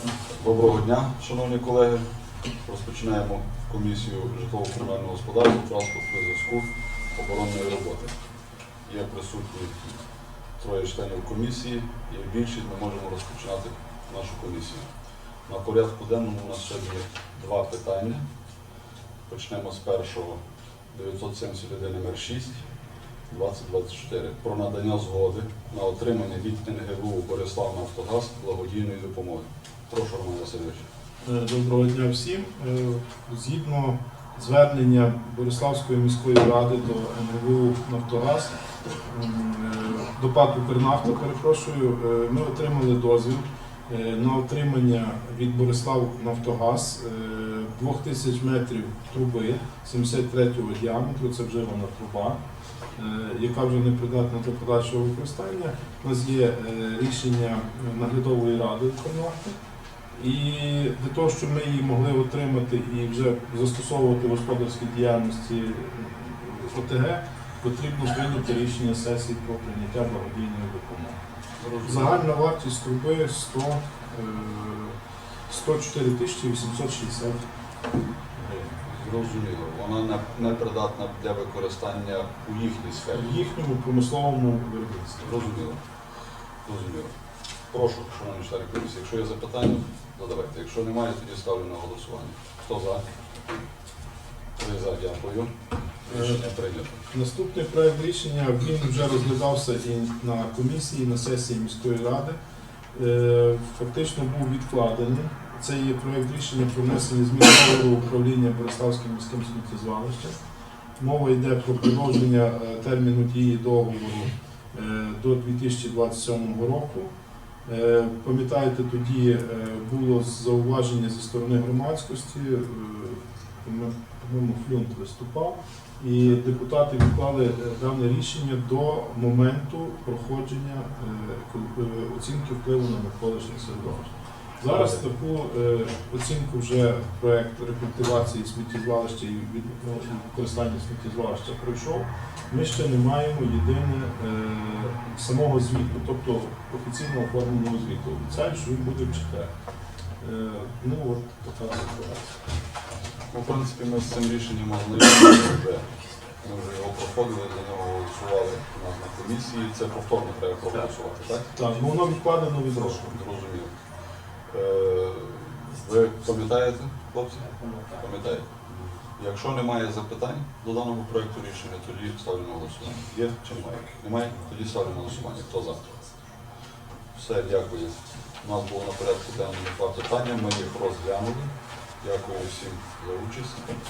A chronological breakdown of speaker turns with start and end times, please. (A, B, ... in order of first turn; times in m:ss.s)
0:00.3-0:02.1 A
0:02.6-0:08.1 A
0:08.9-0:09.8 A
0:10.6-0:14.9 A
0:15.5-0:18.2 A
0:19.3-0:20.4 A
0:20.9-0:22.6 A
0:23.3-0:30.9 A
0:31.2-0:52.4 B
0:53.0-0:59.6 B
1:00.2-1:11.2 B
1:11.6-1:12.3 A
1:11.8-1:15.0 B
1:15.5-1:17.5 B
1:18.4-1:18.8 B
1:18.8-1:23.4 A
1:23.1-1:25.4 B
1:25.2-1:25.8 A
1:26.6-1:27.1 A
1:27.7-1:33.0 A
1:34.6-1:35.5 A
1:36.0-1:37.0 A
1:36.1-1:36.4 B
1:37.1-1:42.4 B
1:42.9-1:50.4 B
1:51.0-1:57.1 B
1:57.7-2:29.5 B
2:30.2-2:32.4 B
2:33.3-2:41.6 A
2:41.5-2:43.1 B
2:43.0-2:43.8 A
2:44.5-2:48.6 A
2:49.2-2:55.9 A
2:57.1-3:03.7 A